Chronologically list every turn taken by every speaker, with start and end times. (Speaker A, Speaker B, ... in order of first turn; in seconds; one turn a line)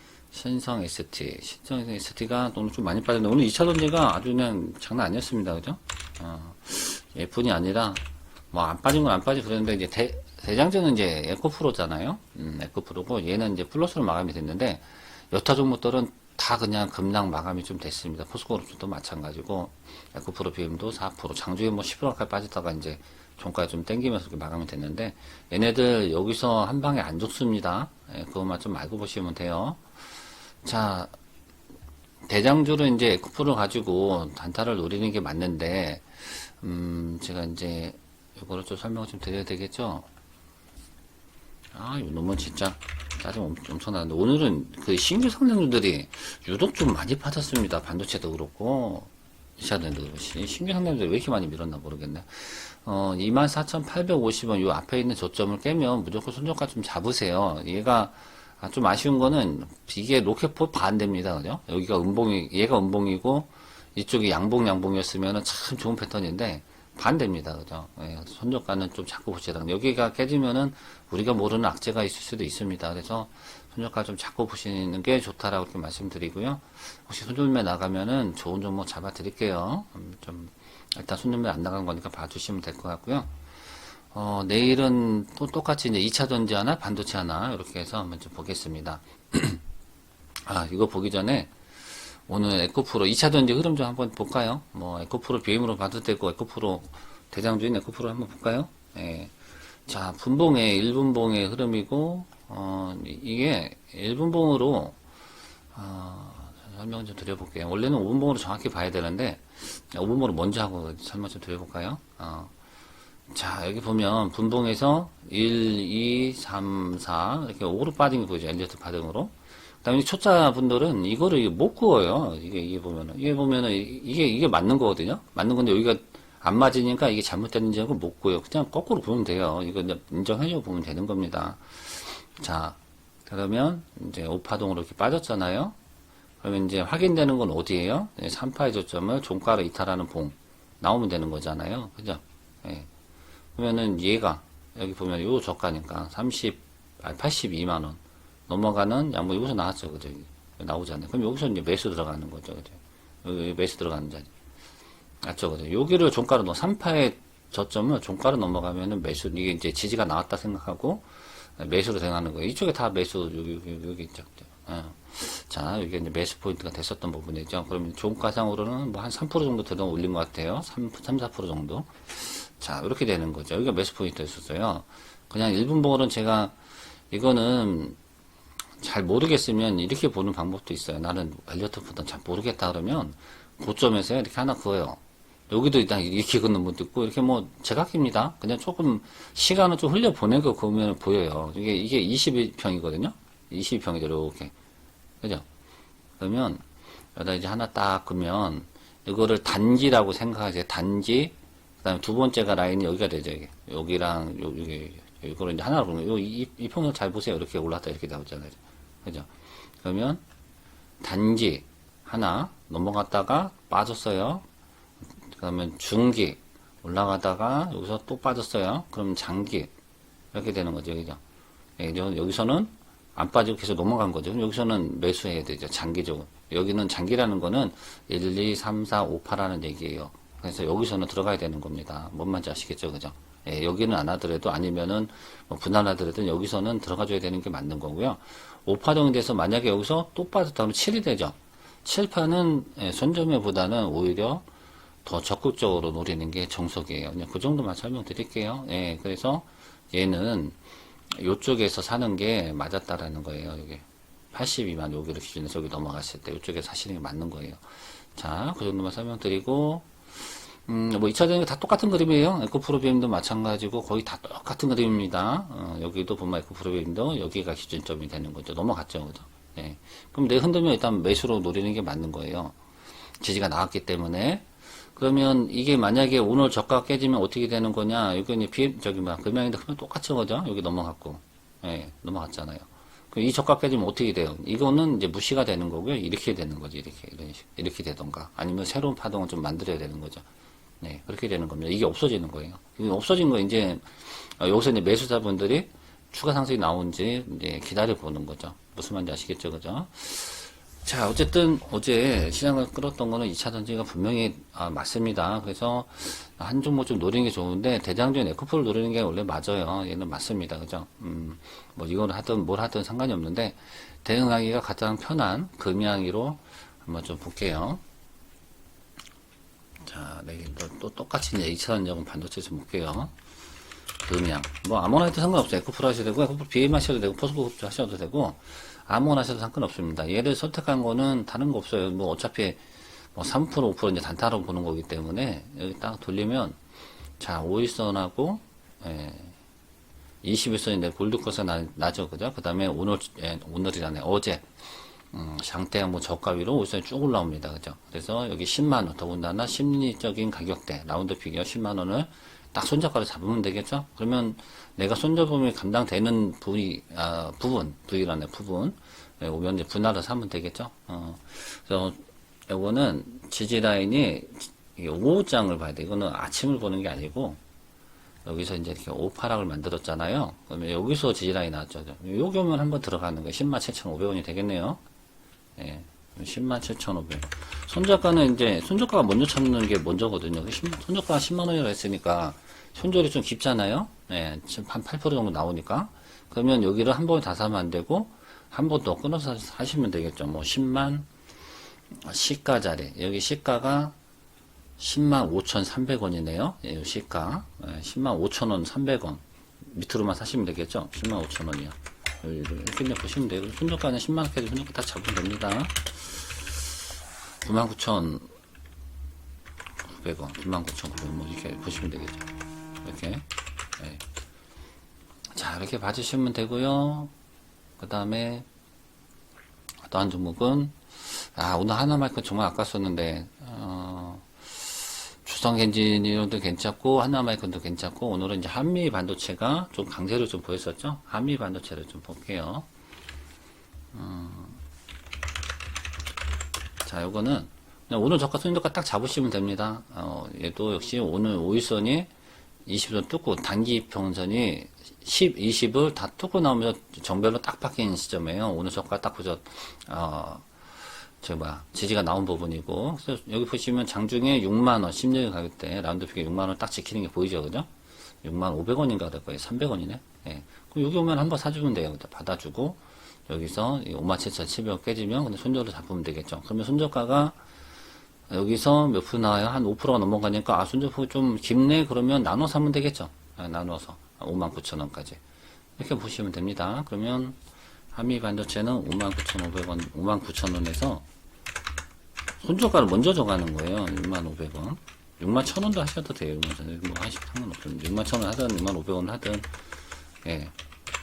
Speaker A: 0.3-29.8
Speaker A: 30.6-31.1
Speaker A: 32.3-40.1
Speaker A: 41.7-83.3
Speaker A: 84.0-89.6
Speaker A: 90.4-99.3
Speaker A: 99.9-105.0
Speaker A: 105.7-112.5
Speaker A: 113.3-135.8
Speaker A: 136.4-142.9
Speaker A: 143.5-154.3
Speaker A: 155.2-176.6
Speaker A: 177.1-178.0
Speaker A: 178.8-194.5
Speaker A: 196.2-196.6
Speaker A: 197.2-210.2
Speaker A: 211.0-214.4
Speaker A: 215.3-219.7
Speaker A: 220.3-221.2
Speaker A: 221.8-244.4
Speaker A: 245.0-250.6
Speaker A: 251.1-257.6
Speaker A: 258.1-272.6
Speaker A: 273.2-290.2
Speaker A: 290.8-317.8
Speaker A: 319.8-323.1
Speaker A: 324.0-332.6
Speaker A: 333.1-336.6
Speaker A: 337.2-339.4
Speaker A: 340.2-344.5
Speaker A: 345.1-367.4
Speaker A: 368.2-374.8
Speaker A: 375.6-391.1
Speaker A: 391.9-393.9
Speaker A: 394.8-406.7
Speaker A: 407.4-408.3
Speaker A: 409.8-413.2
Speaker A: 413.8-414.0
Speaker A: 415.3-417.1
Speaker A: 417.8-418.5
Speaker A: 419.9-432.7
Speaker A: 433.9-434.6
Speaker A: 436.8-442.1
Speaker A: 442.7-450.7
Speaker A: 451.2-457.7
Speaker A: 458.2-467.4
Speaker A: 468.3-475.2
Speaker A: 475.8-477.4
Speaker A: 477.9-481.1
Speaker A: 482.4-489.5
Speaker A: 490.2-490.5